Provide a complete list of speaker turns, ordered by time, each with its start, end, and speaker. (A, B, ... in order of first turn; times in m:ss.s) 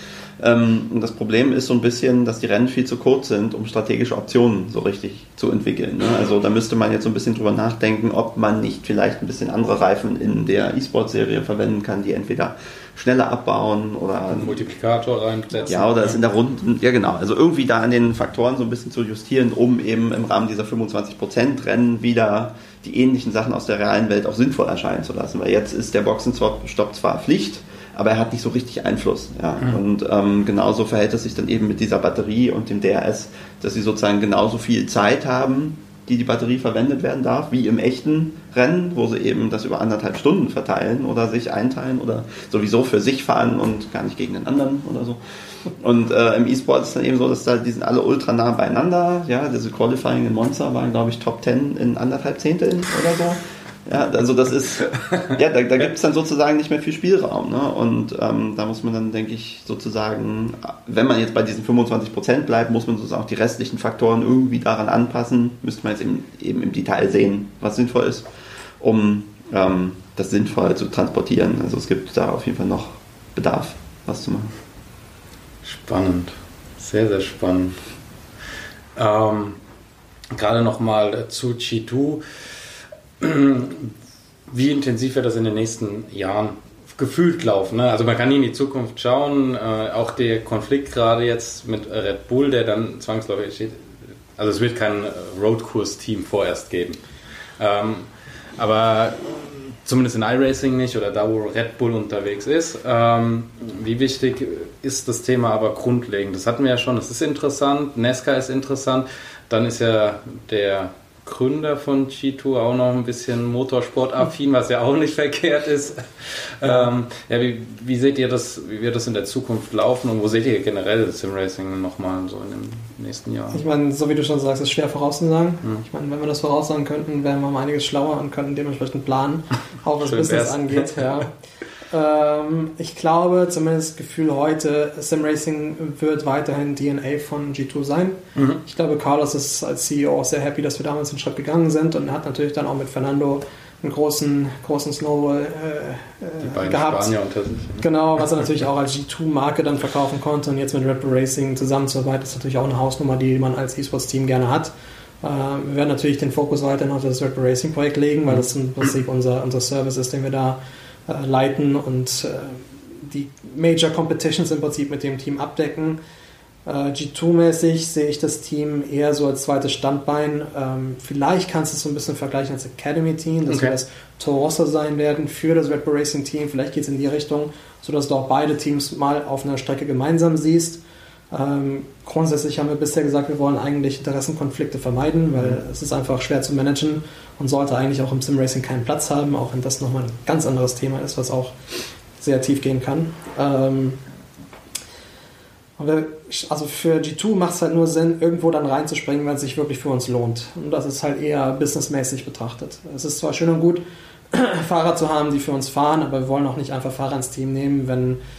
0:00.4-0:14.6 A
0:14.3-0:16.2 B
0:15.6-1:08.3 A
1:08.8-1:14.5 A
1:15.6-1:17.8 B
1:19.0-1:19.6 B
1:20.3-1:22.2 B
1:23.2-1:23.9 B
1:24.5-1:37.0 B
1:37.6-2:03.6 B
2:03.5-2:11.3 C
2:10.0-2:11.2 B
2:11.9-2:27.1 C
2:18.4-2:18.6 B
2:26.4-2:27.8 B
2:27.8-2:46.0 C
2:46.6-3:00.8 C
2:53.5-2:53.7 B
3:01.3-3:11.5 C
3:12.2-3:14.0 C
3:15.8-3:28.2 C